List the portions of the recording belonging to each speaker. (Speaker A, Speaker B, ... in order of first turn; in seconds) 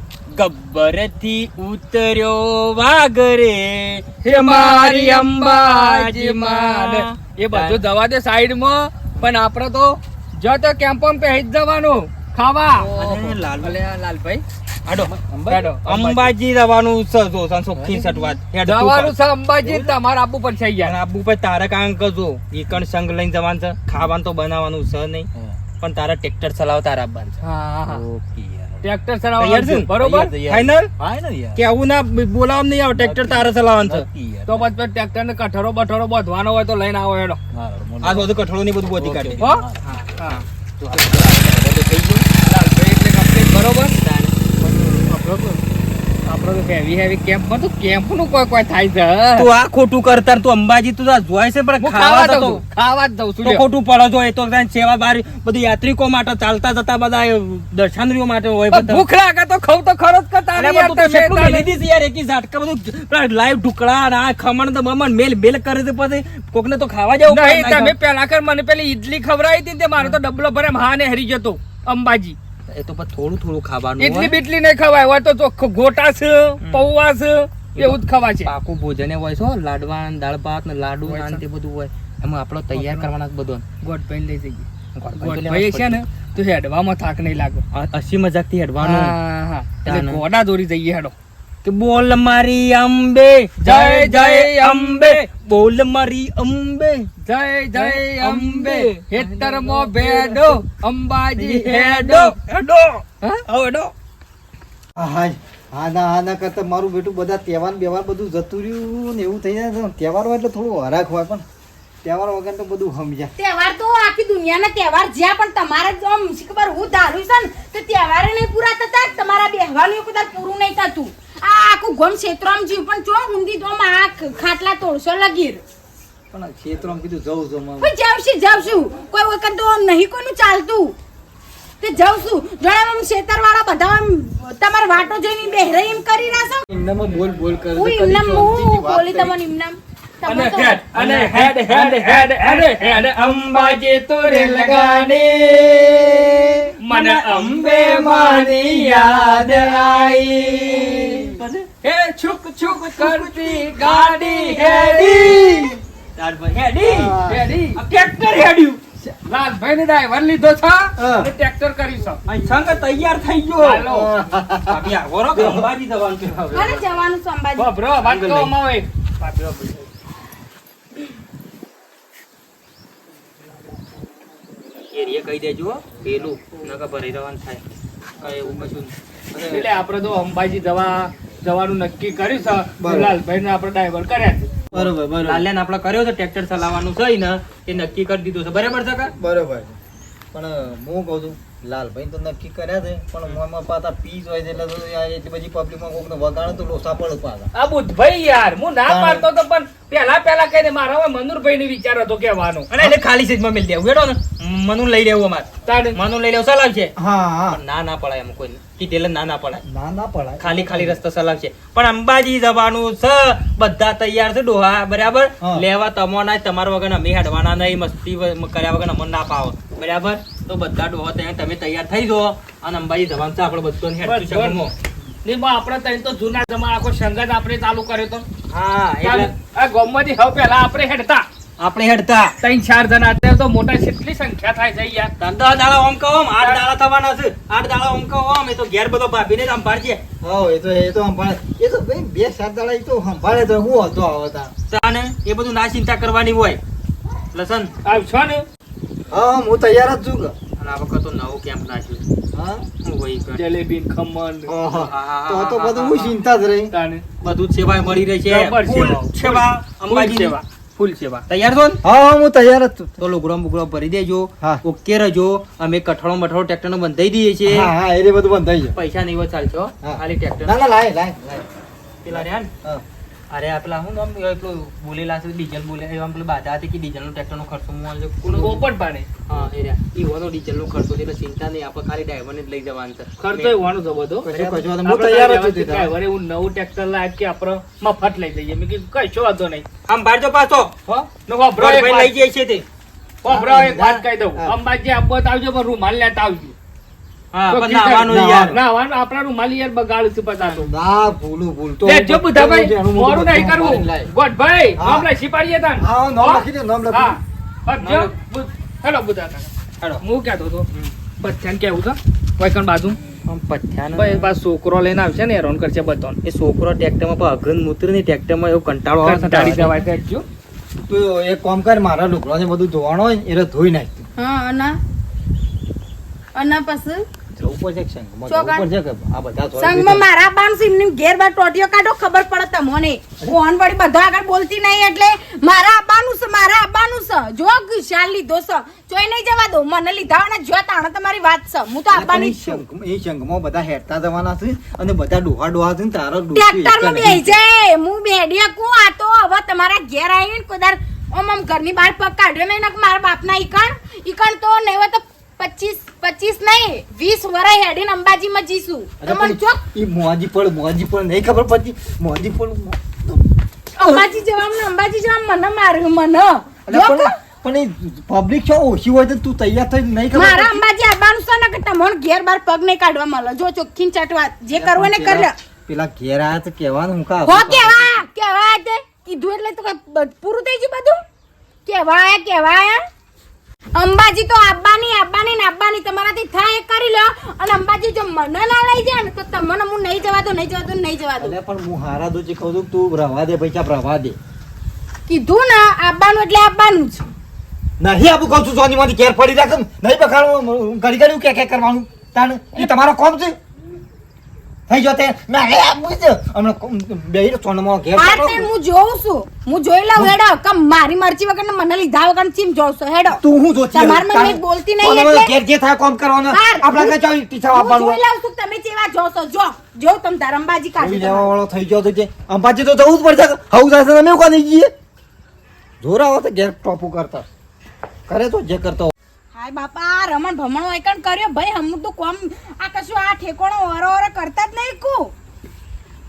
Speaker A: 0.3-7.8, 12.8-13.8, 14.9-15.1, 15.8-19.1, 20.8-25.3, 25.8-27.4, 29.4-30.9, 31.6-34.1, 38.0-42.3, 44.0-44.3, 49.4-52.6, 53.4-59.0, 60.5-67.9, 72.7-74.3, 76.6-76.9, 77.8-83.6, 85.0-86.0, 87.7-89.2, 89.8-90.2, 91.6-97.1, 97.8-100.6, 101.4-103.0, 103.6-103.9, 140.9-151.7, 152.7-155.6, 156.2-157.2, 157.8-158.8, 162.3-163.9, 164.7-166.8, 168.0-168.5, 174.9-177.6, 178.2-178.9, 184.7-189.1, 202.7-206.9, 207.5-209.6, 210.4-224.7, 228.5-229.3, 231.6-232.3, 235.2-240.0, 244.7-246.6, 247.3-247.7, 250.6-252.0, 252.8-253.4, 254.7-256.2, 257.2-261.8, 263.0-267.7, 268.8-270.6, 272.0-272.5, 273.3-278.7, 279.3-283.6, 284.3-284.7, 289.9-290.7, 291.6-292.6, 297.3-298.6, 307.8-308.1, 313.3-314.4, 316.2-319.8
Speaker B: 4.2-14.4, 15.5-16.3, 18.6-21.0, 27.4-28.1, 28.8-30.4, 34.5-37.4, 39.4-39.6, 40.2-40.4, 42.5-44.0, 46.2-49.5, 51.8-53.6, 58.7-61.7, 67.3-72.4, 74.0-78.5, 81.0-81.4, 82.8-83.1, 83.8-87.6, 88.8-91.1, 93.6-95.2, 97.2-102.4, 103.2-103.9, 140.3-145.3, 146.8-150.2, 151.8-155.6, 157.2-157.8, 159.3-162.2, 163.6-164.1, 167.6-169.9, 179.5-184.5, 197.5-202.7, 205.7-206.0, 224.0-224.6, 225.2-228.3, 229.0-231.3, 232.4-235.1, 236.4-236.7, 247.8-248.4, 253.3-254.6, 256.7-257.1, 258.2-260.4, 278.2-279.1, 283.2-284.3, 284.8-289.6, 290.9-292.1, 293.2-296.5, 297.5-300.7, 301.9-310.7, 311.2-313.0, 314.0-316.2, 319.0-320.2
Speaker C: 15.0-15.7, 17.8-18.4, 19.6-19.9, 27.9-28.9, 30.1-31.6, 33.0-34.5, 37.5-38.3, 38.9-40.0, 40.9-41.3, 44.6-45.6, 105.0-111.4, 112.0-113.3, 126.3-127.9, 136.7-139.4, 155.2-155.8, 156.9-157.4, 161.0-161.3, 163.8-165.7, 179.3-179.7, 182.8-183.2, 184.7-185.5, 189.2-189.8, 190.3-197.5, 198.8-199.3, 207.0-207.6, 209.7-211.0, 215.4-215.7, 240.2-244.5, 249.1-250.3, 252.3-252.7, 254.5-256.7, 261.8-263.0, 267.4-268.8, 269.8-271.5, 272.1-272.8, 284.2-285.9, 293.2-294.6, 298.1-298.6, 300.5-304.1, 304.8-305.1, 305.8-307.2, 320.9-324.1, 327.4-330.1, 341.9-347.4, 359.0-363.2, 363.8-364.1, 366.7-370.6, 374.5-378.0, 391.2-394.2, 397.8-403.4, 404.7-408.5, 413.1-418.0, 420.8-424.7, 425.8-427.2, 428.1-428.9
Speaker D: 113.4-125.6, 127.8-131.0, 131.8-136.7, 137.8-140.8, 166.5-167.7, 324.2-324.8, 326.4-327.1, 328.3-328.7, 329.6-342.6, 346.3-359.6, 363.8-367.1, 370.1-375.4, 377.2-381.0, 381.7-382.8, 383.7-391.4, 395.1-397.1, 407.9-413.2, 413.7-415.3, 416.3-417.0, 417.5-421.3, 429.3-435.1